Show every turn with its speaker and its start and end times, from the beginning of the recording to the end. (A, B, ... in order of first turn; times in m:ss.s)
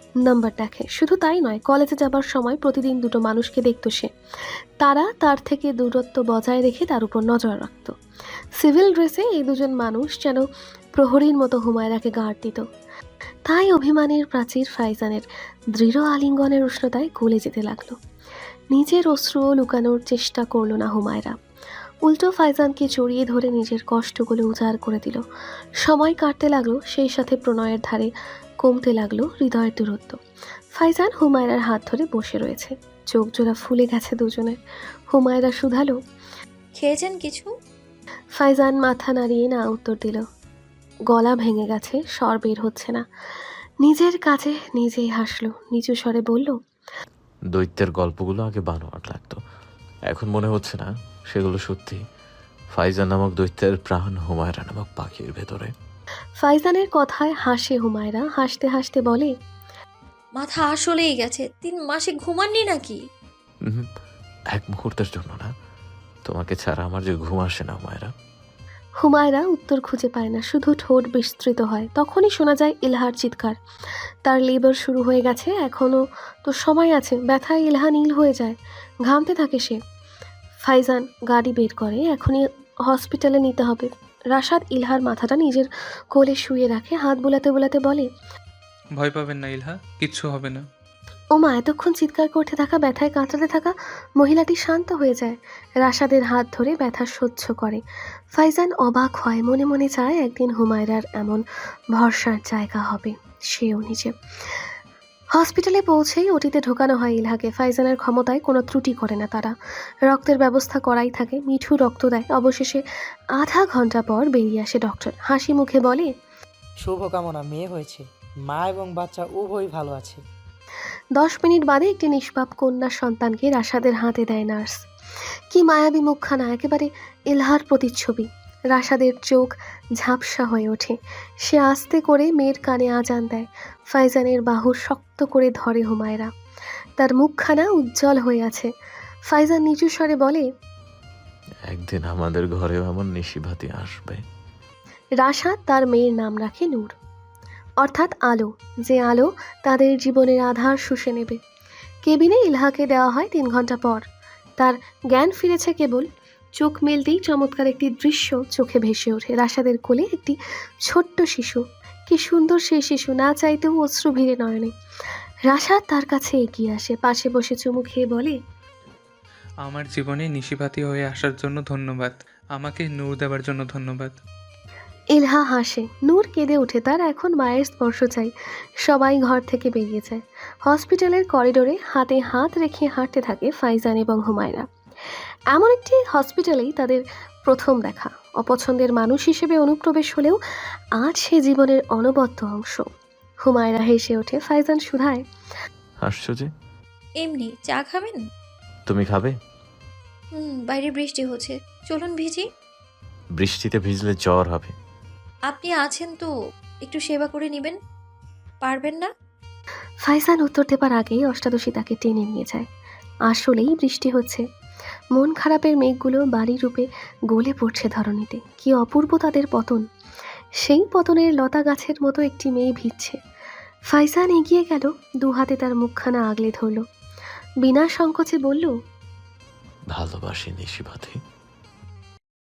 0:00.2-0:04.1 A
0:04.8-0:08.0 A
0:08.6-0:12.6 A
0:13.4-0:18.0 A
0:18.7-0:21.4 A
0:22.0-0:25.2 A
0:25.8-0:28.1 A
0:28.6-0:30.2 A
0:30.7-0:34.6 A
0:35.1-0:36.0 A
0:36.8-0:37.5 B
0:38.4-0:40.2 A
0:41.1-0:43.0 A
0:43.8-0:46.6 A
0:47.5-0:49.4 C
0:50.1-0:52.0 C
0:52.8-0:55.7 C
0:56.4-0:59.3 A
1:00.4-1:03.0 B
1:03.6-1:03.9 C
1:04.5-1:05.5 C
1:06.2-1:08.1 C
1:09.0-1:13.6 A
1:14.2-1:19.8 A
1:20.6-1:28.1 A
1:29.0-1:30.6 D
1:31.3-1:37.8 A
1:38.3-1:44.6 A
1:45.3-1:49.5 A
1:50.0-1:52.8 A
1:53.4-1:56.1 A
1:56.8-2:00.2 E
2:01.2-2:04.8 A
2:05.5-2:16.3 A
2:17.0-2:18.7 A
2:19.3-2:20.5 A
2:21.7-2:24.2 C
2:25.2-2:26.9 A
2:27.8-2:31.4 A
2:32.0-2:34.0 A
2:34.6-2:44.7 A
2:45.5-2:48.4 A
2:49.6-2:54.1 D
2:55.1-3:04.7 A
3:05.5-3:10.4 A
3:11.0-3:12.9 A
3:13.4-3:15.2 A
3:16.0-3:16.5 C
3:17.2-3:18.2 B
3:18.9-3:19.3 C
3:20.3-3:22.5 B
3:23.4-3:24.7 C
3:25.5-3:26.3 B
3:26.8-3:27.8 B
3:28.6-3:29.1 B
3:30.0-3:32.7 A
3:33.3-3:34.4 A
3:35.1-3:39.8 A
3:40.6-3:43.2 A
3:43.9-3:46.8 A
3:47.6-3:48.7 A
3:49.9-3:51.2 C